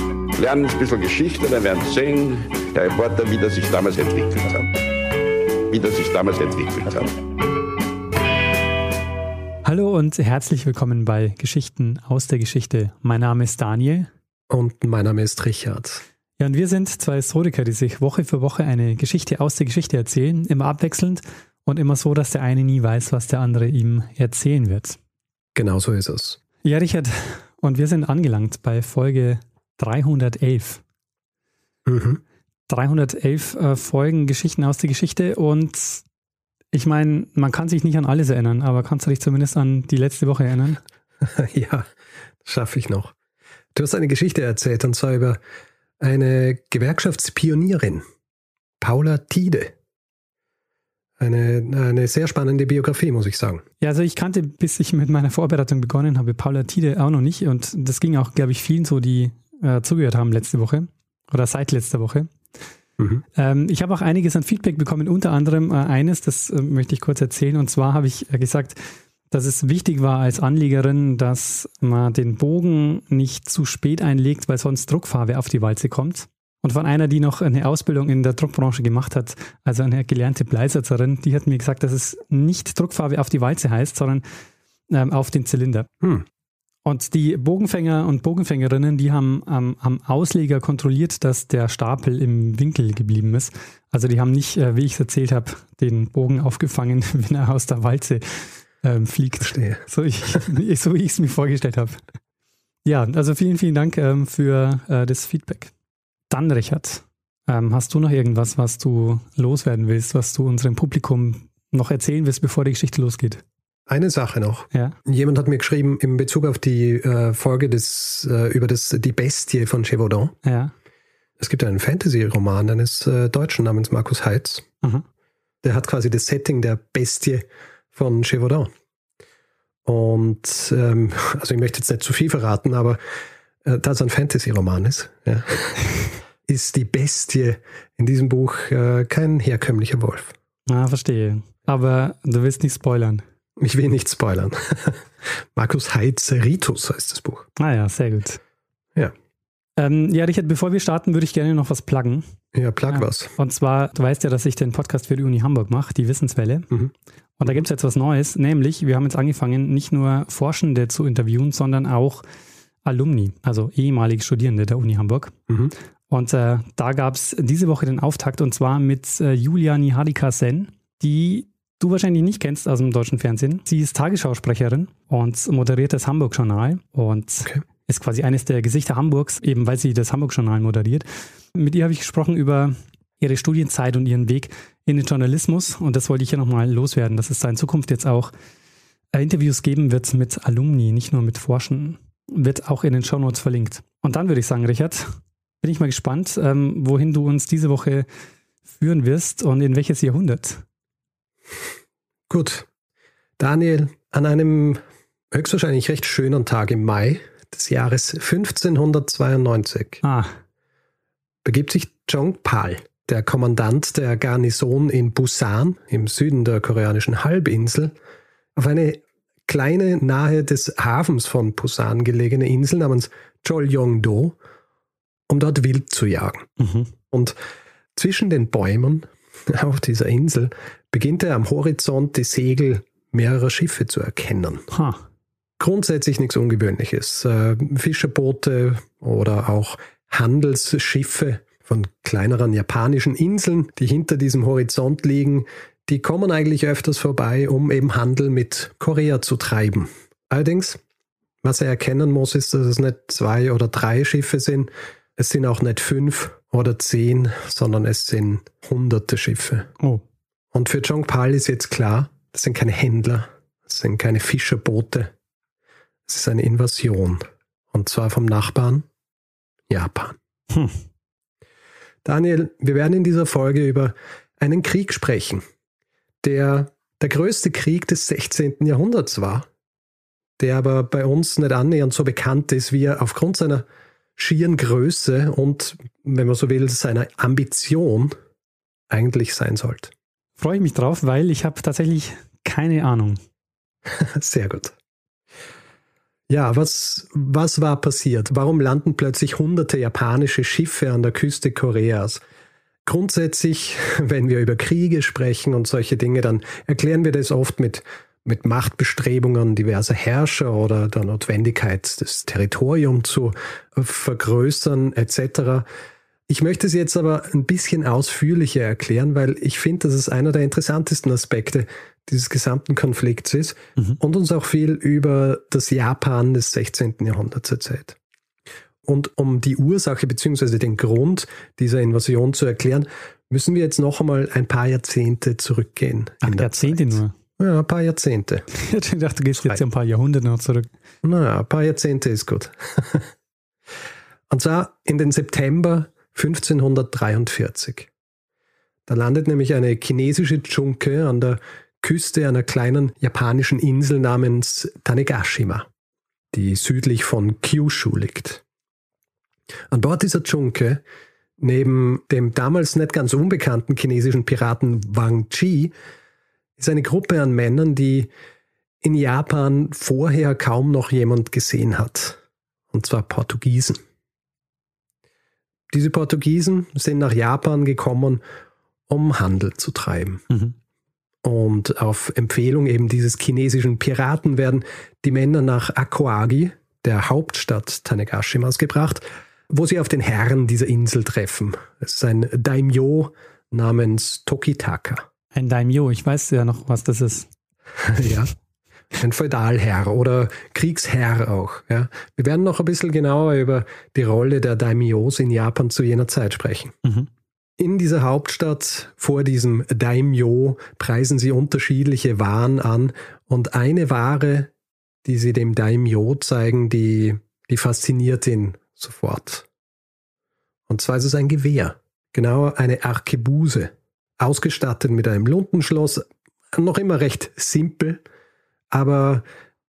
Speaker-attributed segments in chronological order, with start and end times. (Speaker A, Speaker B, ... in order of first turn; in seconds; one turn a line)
Speaker A: 0.3-4.7
Speaker A: 5.7-7.1
Speaker B: 9.6-14.1
Speaker C: 14.5-16.0
Speaker B: 16.4-25.0
Speaker C: 25.6-26.4
Speaker B: 26.6-30.8
Speaker C: 31.9-32.2
Speaker B: 32.7-36.0
Speaker B: 36.7-40.8
Speaker C: 41.2-41.9
Speaker C: 42.4-43.1
Speaker C: 43.7-45.4
Speaker C: 46.0-48.0
Speaker C: 48.8-49.7
Speaker C: 51.2-53.6
Speaker B: 53.8-62.3
Speaker B: 63.3-68.8
Speaker B: 69.3-84.2
Speaker B: 84.9-85.9
Speaker B: 86.8-102.0
Speaker C: 99.4-99.8
Speaker B: 102.8-105.7
Speaker B: 106.3-113.4
Speaker C: 113.9-120.3
Speaker B: 120.4-120.7
Speaker C: 121.4-124.7
Speaker C: 125.6-128.7
Speaker C: 129.8-133.0
Speaker C: 133.6-140.3
Speaker B: 140.7-143.2
Speaker C: 143.6-145.0
Speaker C: 145.6-147.5
Speaker B: 147.6-148.4
Speaker B: 149.8-152.2
Speaker C: 152.5-153.3
Speaker B: 152.9-156.7
Speaker B: 157.4-162.2
Speaker B: 162.8-165.3
Speaker C: 165.5-165.7
Speaker B: 166.1-188.3
Speaker B: 189.1-195.1
Speaker B: 195.6-198.1
Speaker B: 198.8-200.6
Speaker C: 202.3-202.7
Speaker C: 203.4-204.8
Speaker C: 205.3-210.0
Speaker B: 210.0-210.3
Speaker C: 211.4-217.9
Speaker C: 218.6-224.4
Speaker C: 225.3-226.5
Speaker B: 226.6-226.9
Speaker C: 227.1-227.3
Speaker C: 227.9-234.7
Speaker B: 234.7-235.0
Speaker C: 235.6-250.8
Speaker C: 251.4-259.7
Speaker C: 260.5-265.1
Speaker C: 266.1-268.9
Speaker C: 269.7-270.1
Speaker C: 272.0-275.4
Speaker C: 276.2-279.5
Speaker C: 280.4-283.6
Speaker C: 284.2-288.1
Speaker C: 288.9-289.9
Speaker B: 290.4-293.2
Speaker C: 293.9-294.8
Speaker C: 296.3-302.2
Speaker C: 302.8-315.6
Speaker C: 316.3-327.9
Speaker C: 328.9-338.4
Speaker B: 336.2-337.1
Speaker B: 338.5-340.7
Speaker C: 341.0-343.1
Speaker C: 344.3-347.9
Speaker C: 348.9-355.7
Speaker C: 356.3-358.4
Speaker C: 359.7-360.8
Speaker C: 361.4-365.7
Speaker C: 366.6-368.1
Speaker C: 368.8-372.2
Speaker C: 372.7-373.8
Speaker C: 375.7-378.2
Speaker C: 378.9-380.3
Speaker C: 381.2-395.1
Speaker B: 395.3-397.3
Speaker C: 397.8-398.3
Speaker C: 398.9-406.8
Speaker C: 407.6-414.5
Speaker C: 415.0-419.4
Speaker C: 420.7-428.0
Speaker C: 428.7-429.2